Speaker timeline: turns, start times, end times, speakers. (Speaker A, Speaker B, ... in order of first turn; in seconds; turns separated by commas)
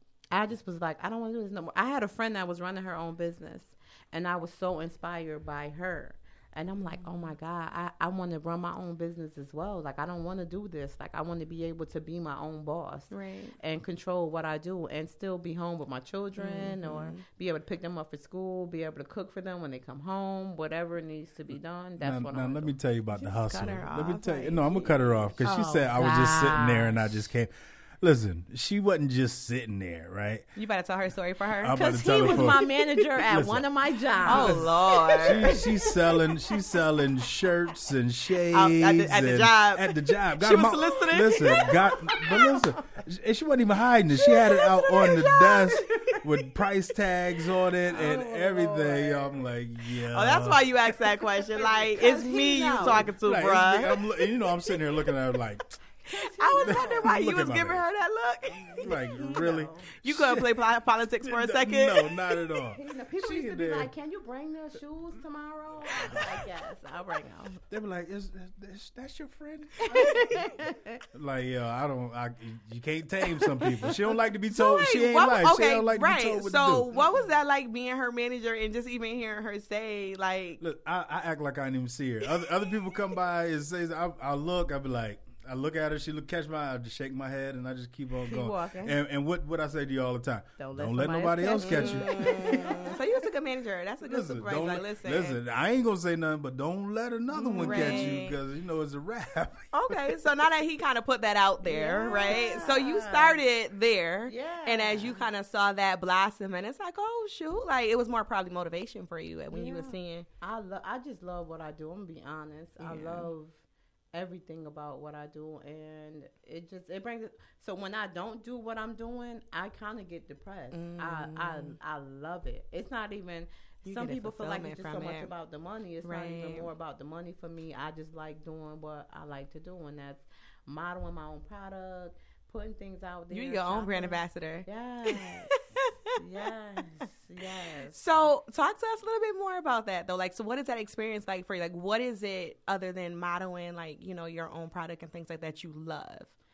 Speaker A: 0.3-22.8, Speaker B: 13.1-13.6, Speaker B: 16.4-17.2, Speaker C: 22.0-30.4, Speaker B: 23.1-25.4, Speaker A: 25.4-27.2, Speaker B: 30.6-32.9, Speaker C: 31.6-32.6, Speaker A: 31.7-35.7, Speaker C: 33.3-33.7, Speaker C: 34.2-50.7, Speaker B: 34.2-35.6, Speaker B: 38.5-41.7, Speaker A: 41.5-42.6, Speaker B: 44.2-46.2, Speaker A: 47.8-49.4, Speaker B: 50.1-54.2, Speaker A: 51.6-53.1, Speaker C: 53.1-55.8, Speaker A: 56.0-57.1, Speaker B: 56.1-58.9, Speaker C: 56.5-57.9, Speaker A: 58.7-59.9, Speaker C: 58.8-60.7, Speaker B: 60.0-62.4, Speaker C: 61.2-63.9, Speaker A: 62.7-67.6, Speaker C: 65.9-66.5, Speaker C: 67.7-70.6, Speaker A: 69.8-71.0, Speaker B: 69.9-70.3, Speaker C: 71.1-76.9, Speaker B: 74.5-80.6, Speaker A: 76.9-77.2, Speaker C: 80.6-93.0, Speaker A: 88.2-89.0, Speaker A: 90.6-93.0, Speaker B: 91.6-95.4, Speaker C: 94.0-100.1, Speaker B: 97.3-98.4, Speaker A: 97.5-98.2, Speaker B: 99.7-110.2, Speaker A: 101.6-103.4, Speaker A: 104.3-105.2, Speaker A: 109.5-113.6, Speaker B: 112.8-113.3, Speaker A: 114.1-138.2, Speaker B: 120.7-121.8, Speaker B: 123.8-125.3, Speaker B: 126.0-126.7, Speaker B: 133.3-137.0, Speaker B: 137.9-146.3